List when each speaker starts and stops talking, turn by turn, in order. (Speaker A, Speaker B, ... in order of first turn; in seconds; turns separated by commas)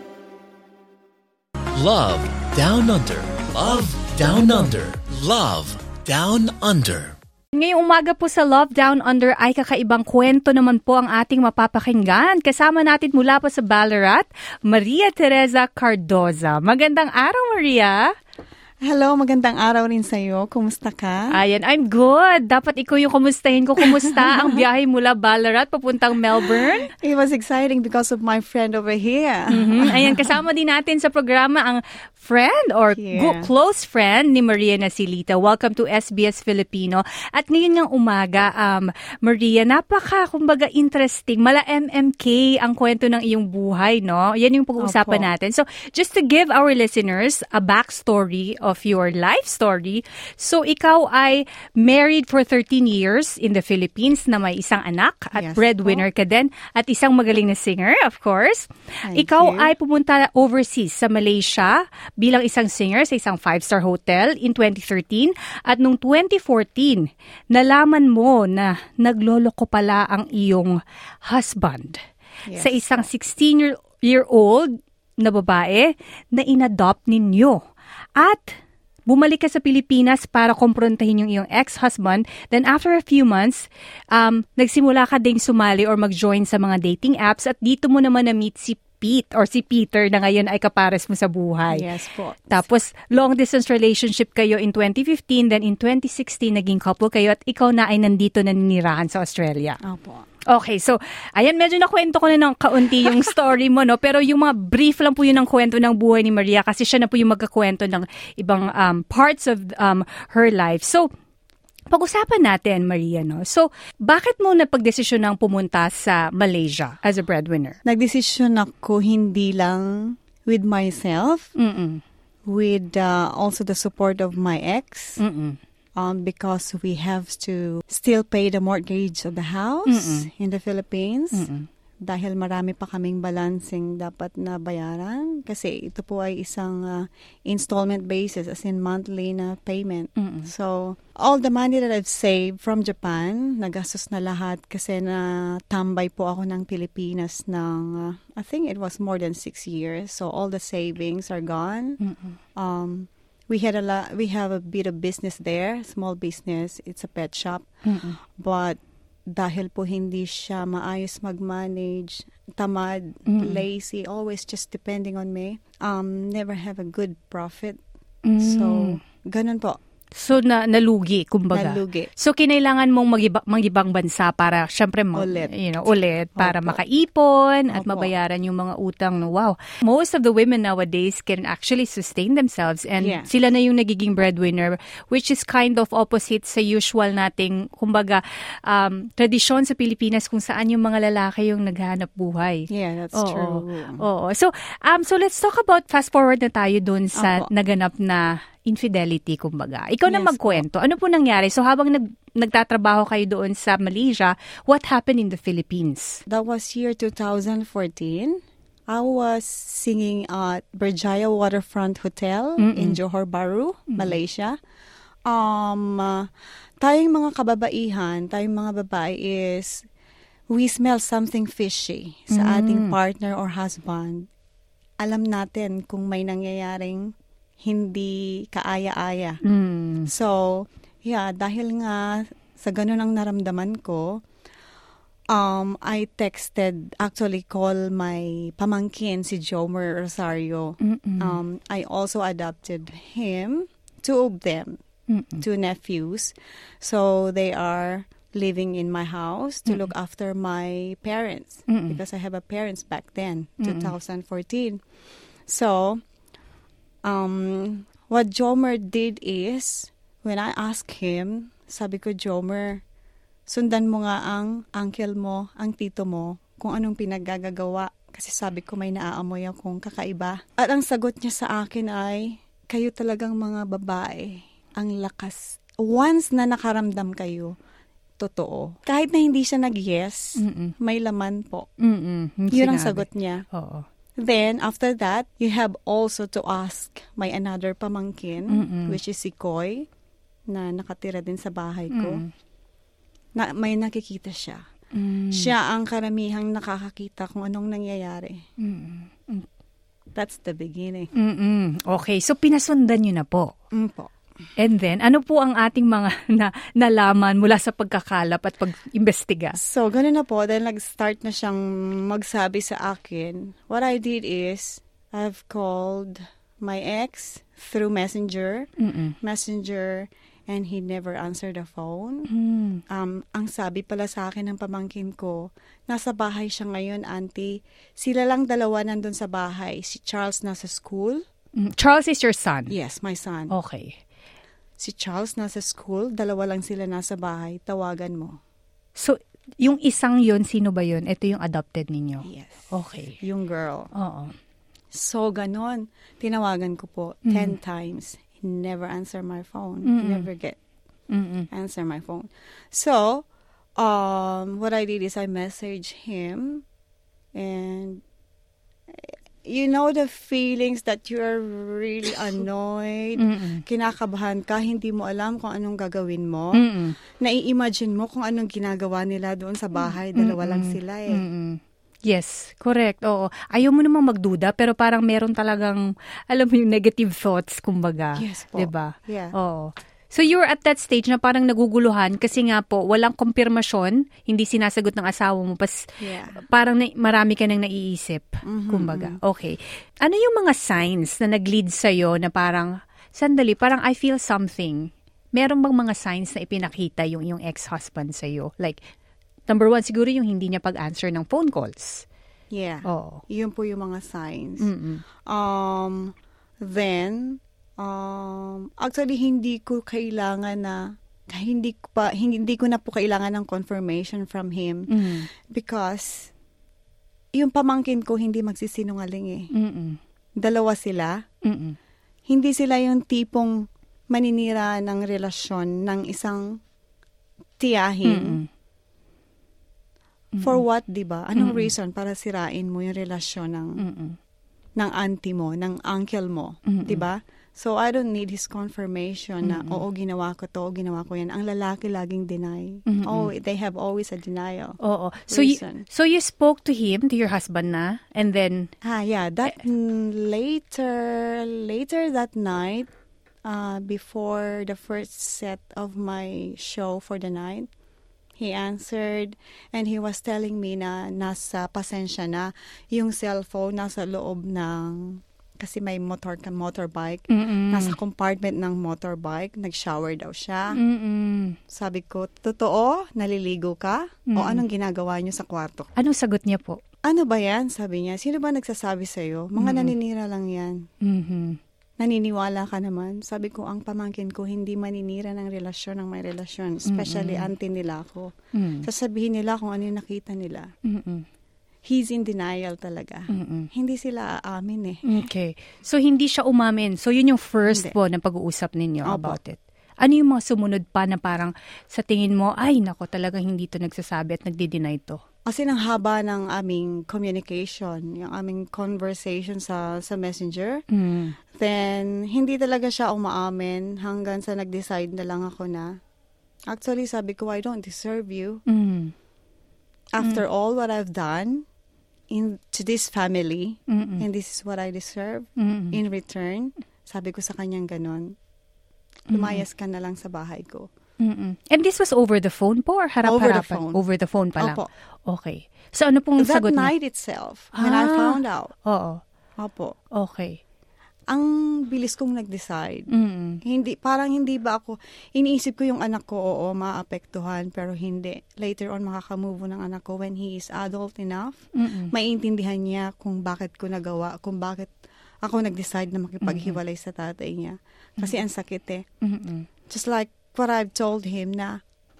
Speaker A: 1.7-7.2, Speaker B: 7.5-18.1, Speaker C: 18.8-21.3, Speaker B: 21.3-26.9, Speaker C: 23.8-24.6, Speaker C: 26.4-30.3, Speaker B: 29.5-72.0, Speaker C: 33.0-33.5, Speaker C: 44.8-45.3, Speaker C: 55.3-56.0, Speaker C: 59.0-59.7, Speaker C: 72.5-73.1, Speaker B: 72.6-77.6, Speaker B: 78.2-78.5, Speaker B: 79.1-91.8, Speaker C: 91.7-92.6, Speaker B: 92.5-99.8, Speaker C: 99.8-100.2, Speaker B: 100.5-111.1, Speaker B: 111.9-117.8, Speaker C: 117.8-121.5, Speaker B: 121.6-122.0, Speaker C: 122.5-125.2, Speaker B: 125.2-125.6, Speaker C: 126.0-131.5, Speaker B: 129.9-130.3, Speaker B: 131.3-131.7, Speaker C: 132.0-152.0, Speaker B: 140.2-140.5, Speaker B: 152.0-152.4, Speaker C: 152.5-157.7, Speaker B: 157.8-158.2, Speaker C: 158.2-167.8, Speaker B: 163.3-163.6, Speaker B: 168.2-169.0, Speaker C: 168.4-169.8, Speaker B: 170.1-206.2, Speaker C: 171.5-172.1, Speaker C: 175.1-176.8, Speaker C: 177.7-178.1, Speaker C: 183.0-183.3, Speaker C: 192.7-194.0, Speaker C: 197.2-197.5, Speaker C: 200.1-200.6, Speaker C: 206.3-214.6, Speaker B: 212.6-213.0, Speaker B: 213.9-214.2, Speaker C: 215.3-216.3, Speaker C: 216.8-219.8, Speaker C: 220.5-224.3, Speaker B: 222.3-222.9, Speaker C: 225.0-229.4, Speaker B: 229.4-230.1, Speaker C: 230.1-234.2, Speaker C: 235.3-244.8, Speaker B: 240.8-241.4, Speaker B: 245.1-245.4, Speaker C: 245.4-254.8, Speaker B: 251.7-252.0, Speaker B: 253.6-253.9, Speaker C: 255.4-256.0, Speaker C: 257.1-262.8, Speaker C: 263.5-277.5, Speaker C: 278.2-281.7, Speaker B: 280.4-280.7, Speaker B: 281.8-283.9, Speaker C: 282.5-283.4, Speaker C: 284.2-289.9, Speaker B: 288.5-288.9, Speaker C: 290.5-292.2, Speaker B: 291.9-292.3, Speaker C: 293.4-294.6, Speaker B: 294.9-295.5, Speaker C: 295.3-298.4, Speaker B: 298.6-299.4, Speaker C: 300.1-301.1, Speaker B: 301.1-303.5, Speaker C: 303.7-304.1, Speaker B: 304.6-309.6, Speaker C: 309.6-318.7, Speaker B: 318.8-319.1, Speaker C: 319.2-322.3, Speaker B: 322.3-322.8, Speaker C: 322.9-331.2, Speaker B: 331.6-332.7, Speaker C: 332.7-333.5, Speaker B: 333.5-334.0, Speaker C: 334.8-338.4, Speaker B: 338.9-343.2, Speaker C: 342.2-343.9, Speaker B: 343.9-344.3, Speaker C: 344.9-350.6, Speaker B: 347.2-347.6, Speaker B: 349.8-350.3, Speaker B: 351.1-351.5, Speaker C: 351.5-353.2, Speaker C: 353.8-356.6, Speaker C: 357.3-358.0, Speaker C: 358.9-371.2, Speaker B: 363.2-363.6, Speaker B: 366.5-367.0, Speaker B: 369.8-398.8, Speaker C: 378.2-379.3, Speaker C: 386.0-386.4, Speaker C: 388.4-389.2, Speaker B: 399.5-402.1, Speaker C: 402.5-404.7, Speaker B: 402.8-403.2, Speaker B: 404.6-405.0, Speaker C: 405.2-416.3, Speaker B: 414.9-415.3, Speaker C: 417.3-419.5, Speaker B: 419.5-420.0, Speaker C: 420.4-421.2, Speaker B: 421.4-421.8, Speaker C: 422.3-426.6, Speaker C: 427.6-428.4, Speaker B: 428.0-428.5, Speaker C: 430.4-433.8, Speaker B: 431.4-431.7, Speaker B: 433.8-434.2, Speaker C: 434.8-444.8, Speaker B: 436.7-437.1, Speaker B: 439.4-439.8, Speaker B: 442.9-443.3, Speaker B: 444.8-448.7, Speaker C: 445.3-445.9, Speaker C: 448.8-452.9, Speaker C: 453.4-457.7, Speaker C: 458.4-470.8, Speaker B: 467.3-468.0, Speaker B: 470.7-471.6, Speaker C: 471.7-475.9, Speaker B: 474.3-474.6, Speaker B: 475.9-476.8, Speaker C: 477.0-480.9, Speaker B: 479.6-479.9, Speaker B: 481.0-481.6, Speaker C: 482.0-490.7, Speaker B: 486.9-487.5, Speaker B: 488.5-488.9, Speaker B: 490.8-491.2, Speaker C: 491.8-495.3, Speaker B: 493.3-493.7, Speaker B: 495.0-505.2, Speaker C: 497.7-497.9, Speaker C: 499.0-499.4, Speaker C: 505.4-510.8, Speaker B: 510.9-511.4, Speaker C: 511.5-516.0, Speaker C: 516.7-518.6, Speaker B: 518.7-519.1, Speaker C: 520.1-521.6, Speaker C: 522.3-528.4, Speaker B: 523.9-524.2, Speaker B: 525.6-526.0, Speaker B: 529.3-529.6, Speaker C: 529.3-530.9, Speaker B: 531.2-536.9, Speaker C: 533.2-534.0, Speaker C: 534.6-534.9, Speaker C: 536.4-538.7, Speaker B: 537.7-539.2, Speaker C: 539.6-540.0, Speaker B: 540.1-540.6, Speaker C: 541.3-543.1, Speaker B: 543.1-543.6, Speaker C: 543.6-559.0, Speaker B: 551.8-552.1, Speaker B: 556.4-556.8, Speaker B: 559.2-559.7, Speaker C: 559.9-561.8